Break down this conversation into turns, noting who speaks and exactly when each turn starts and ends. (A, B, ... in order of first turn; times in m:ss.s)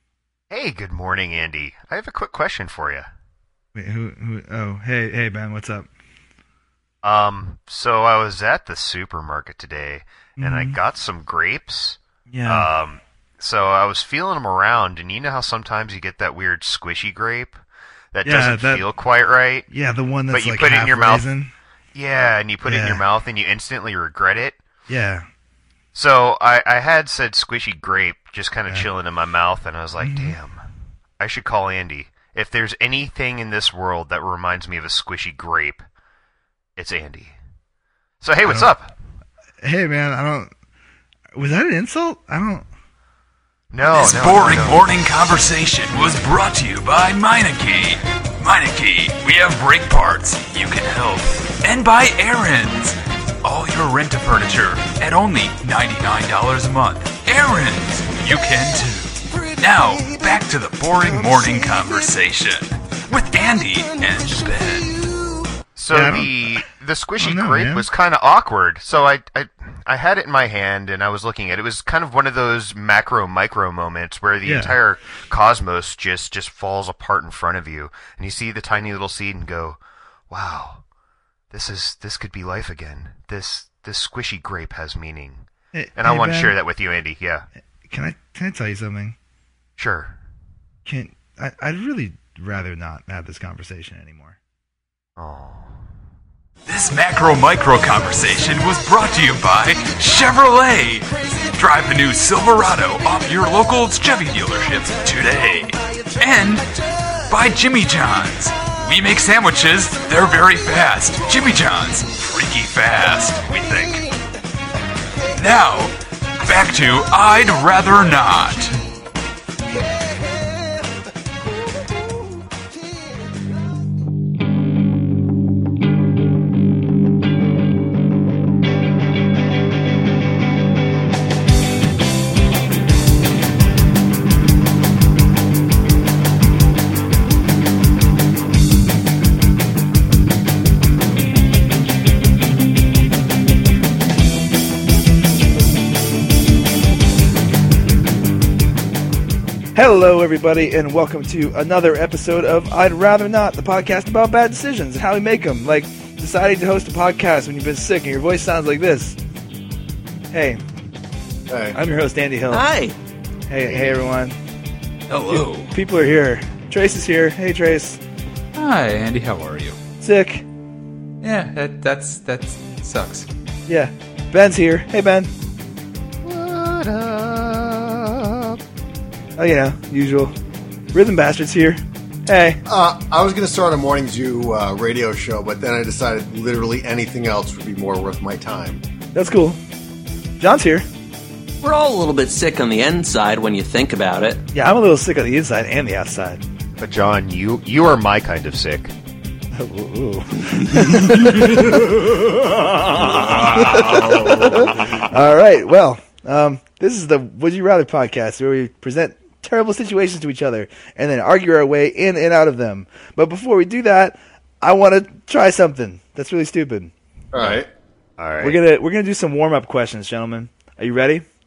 0:00.5-0:03.1 A
0:03.7-0:05.9 B
0:07.0-0:17.6 A
0:10.4-0:10.8 B
0:12.3-0:12.7 B
0:18.1-0:19.7 A
0:18.2-0:18.8 B
0:19.7-0:21.5 B
0:20.3-0:21.2 A
0:21.9-0:24.6 A
0:22.6-0:23.0 B
0:24.9-0:25.2 B
0:25.9-0:30.6 A
0:30.0-0:30.3 B
0:31.2-0:35.8 A
0:36.8-0:37.3 A
0:38.2-0:38.9 A
0:39.6-0:40.5 B
0:41.3-0:42.7 B
0:43.7-0:45.0 A
0:43.9-1:05.1 C
1:05.8-1:19.8 A
1:05.9-1:06.6 B
1:07.2-1:07.8 B
1:14.4-1:14.8 B
1:20.3-1:20.8 A
1:21.5-1:25.4 A
1:25.7-1:26.5 B
1:26.0-1:27.4 A
1:27.9-1:29.2 B
1:29.8-1:30.1 A
1:30.8-1:34.4 B
1:35.2-1:35.8 A
1:36.7-1:54.1 C
1:55.4-1:58.8 C
2:29.7-2:39.2 B
2:40.3-2:40.6 B
2:41.5-2:41.8 D
2:41.7-2:42.6 B
2:42.5-2:42.9 E
2:43.5-2:44.4 B
2:45.1-2:45.7 C
2:45.3-2:48.0 B
2:48.5-2:49.8 C
2:50.0-2:50.4 B
2:51.2-2:53.3 C
2:53.7-2:55.3 B
2:56.2-2:58.6 A
2:59.4-3:00.3 B
3:00.9-3:02.6 B
3:02.6-3:08.8 D
3:09.1-3:09.6 B
3:10.4-3:10.8 B
3:11.6-3:14.4 E
3:14.5-3:16.4 B
3:16.8-3:18.9 A
3:19.5-3:36.9 B
3:21.0-3:24.8 C
3:37.3-3:37.7 D
3:38.2-3:38.6 A
3:38.4-3:41.2 B